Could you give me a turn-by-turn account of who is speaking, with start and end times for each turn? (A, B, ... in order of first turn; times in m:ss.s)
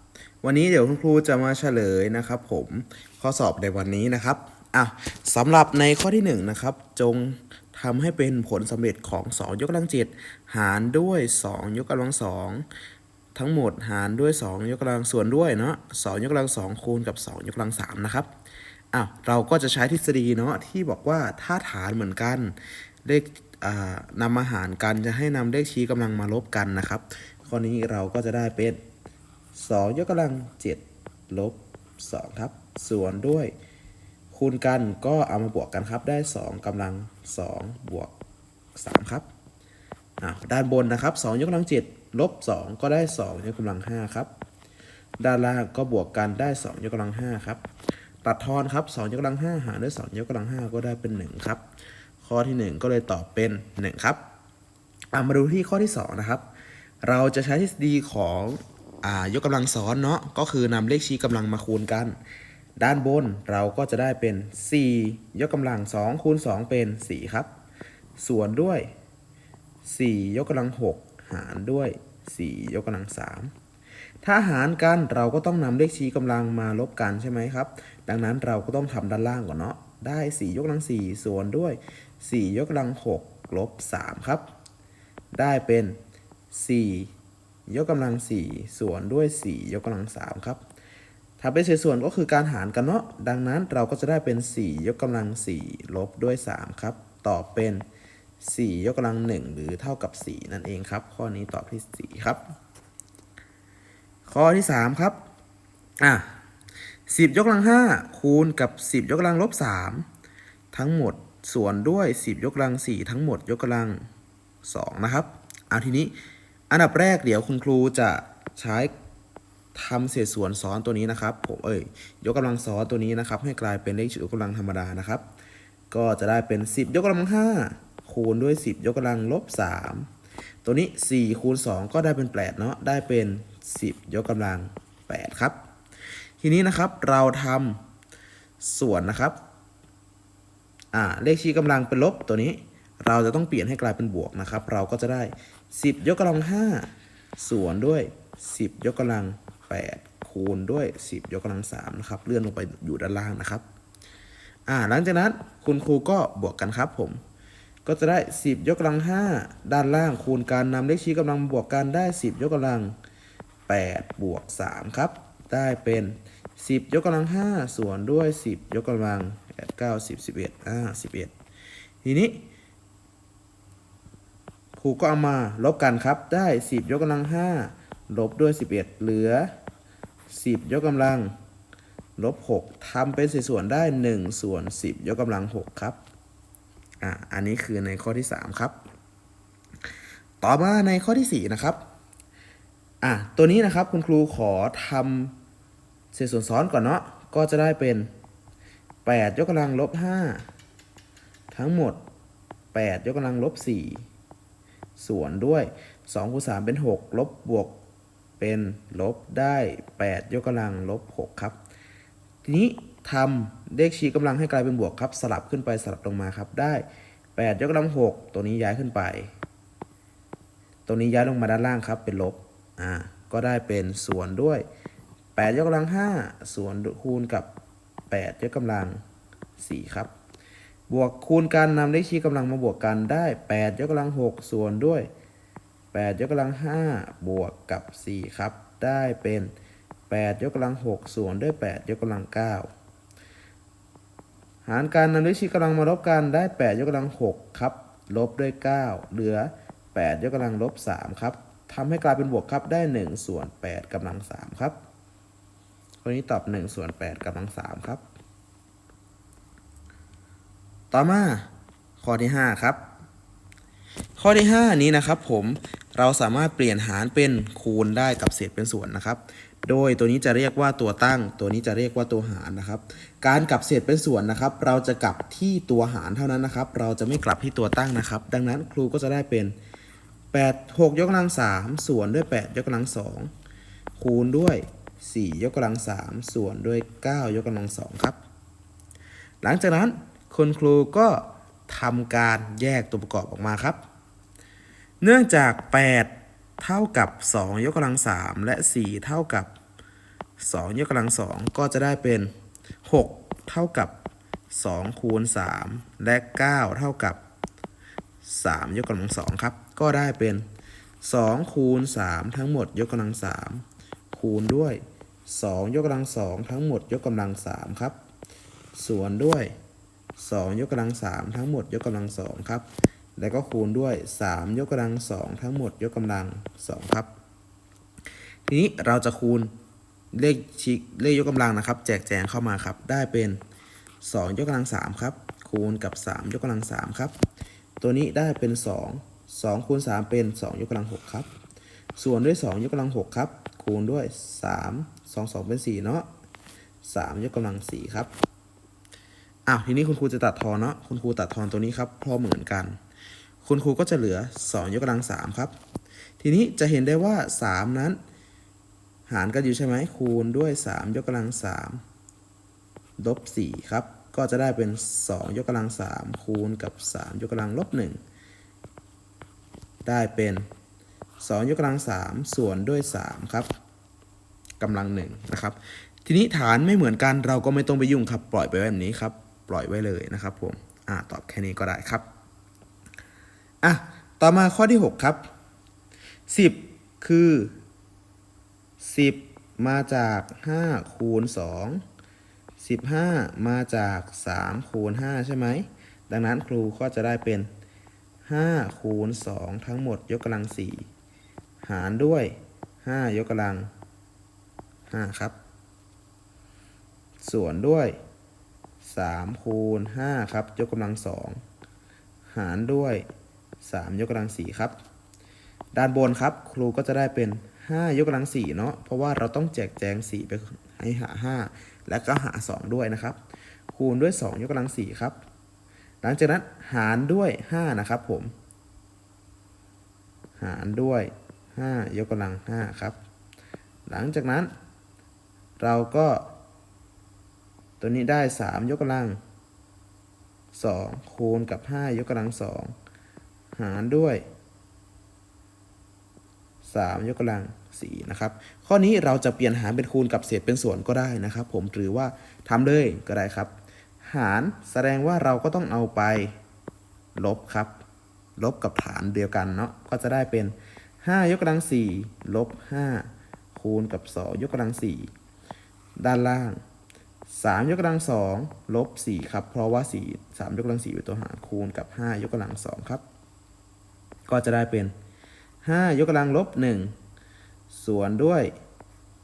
0:00.4-0:12.6 A
0:13.3-0:18.3 A
0:18.9-0:28.8 A
0:29.5-0:33.5 A
0:34.3-0:38.1 A
0:38.7-0:39.2 A
0:40.2-0:44.3 A
0:45.2-0:47.6 A
0:48.2-0:51.6 A
0:52.2-0:54.2 A
0:55.1-0:56.4 A
0:57.0-1:02.2 A
1:02.8-1:07.5 A
1:08.2-1:08.9 A
1:09.8-1:13.5 A
1:14.2-1:24.4 A
1:25.3-1:26.0 A
1:26.5-1:27.1 A
1:27.7-1:30.6 A
1:31.4-1:37.8 A
1:38.4-1:42.4 A
1:44.3-1:45.2 A
1:46.0-1:46.3 A
1:47.1-1:50.0 A
1:50.7-1:54.0 A
1:54.6-1:56.1 A
1:56.7-1:58.9 A
1:59.7-2:05.2 A
2:05.9-2:10.1 A
2:10.6-2:15.6 A
2:16.4-2:17.8 A
2:18.6-2:19.4 A
2:20.9-2:33.6 A
2:34.7-2:37.2 A
2:37.8-2:42.9 A
2:43.7-2:51.3 A
2:52.0-2:52.4 A
2:54.8-2:59.5 A
3:00.3-3:01.3 A
3:02.2-3:06.0 A
3:07.0-3:08.8 A
3:10.4-3:11.8 A
3:13.0-3:15.3 A
3:16.1-3:18.1 A
3:19.0-3:20.5 A
3:21.5-3:22.0 A
3:22.7-3:24.1 A
3:25.0-3:27.7 A
3:28.4-3:31.6 A
3:32.4-3:36.8 A
3:37.4-3:39.3 A
3:40.8-3:44.6 A
3:45.4-3:47.5 A
3:48.1-3:49.0 A
3:49.6-3:50.1 A
3:50.9-3:55.1 A
3:55.9-3:59.5 A
4:00.1-4:02.7 A
4:04.6-4:14.8 A
4:16.0-4:18.0 A
4:20.9-4:21.5 A
4:22.0-4:22.8 A
4:24.2-4:39.5 A
4:40.3-4:43.3 A
4:44.0-4:48.2 A
4:49.4-4:53.8 A
4:55.0-4:59.5 A
5:00.4-5:02.3 A
5:02.8-5:03.9 A
5:04.5-5:07.2 A
5:08.2-5:10.4 A
5:11.0-5:18.0 A
5:18.8-5:19.5 A
5:20.2-5:22.6 A
5:23.2-5:27.1 A
5:28.5-5:29.5 A
5:30.1-5:33.4 A
5:34.0-5:37.2 A
5:37.8-5:41.3 A
5:42.0-5:46.1 A
5:46.8-5:48.1 A
5:49.5-5:52.8 A
5:53.4-5:55.5 A
5:56.2-5:58.0 A
5:59.1-6:01.8 A
6:03.0-6:08.0 A
6:09.8-6:10.5 A
6:11.2-6:13.5 A
6:14.6-6:22.0 A
6:23.6-6:25.3 A
6:26.3-6:27.5 A
6:28.8-6:31.8 A
6:32.6-6:37.5 A
6:38.2-6:40.9 A
6:41.6-6:43.7 A
6:44.9-6:45.3 A
6:47.2-6:48.0 A
6:48.8-6:51.4 A
6:52.3-6:53.0 A
6:53.6-6:54.8 A
6:55.7-7:03.2 A
7:03.7-7:05.2 A
7:06.0-7:08.3 A
7:10.4-7:13.0 A
7:13.9-7:14.5 A
7:15.6-7:16.2 A
7:17.8-7:19.2 A
7:20.5-7:22.7 A
7:23.6-7:24.2 A
7:26.6-7:33.5 A
7:34.0-7:36.4 A
7:37.2-7:37.8 A
7:38.4-7:45.1 A
7:46.0-7:46.6 A
7:47.3-7:53.0 A
7:54.3-7:54.9 A
7:55.6-7:56.9 A
7:57.7-7:58.5 A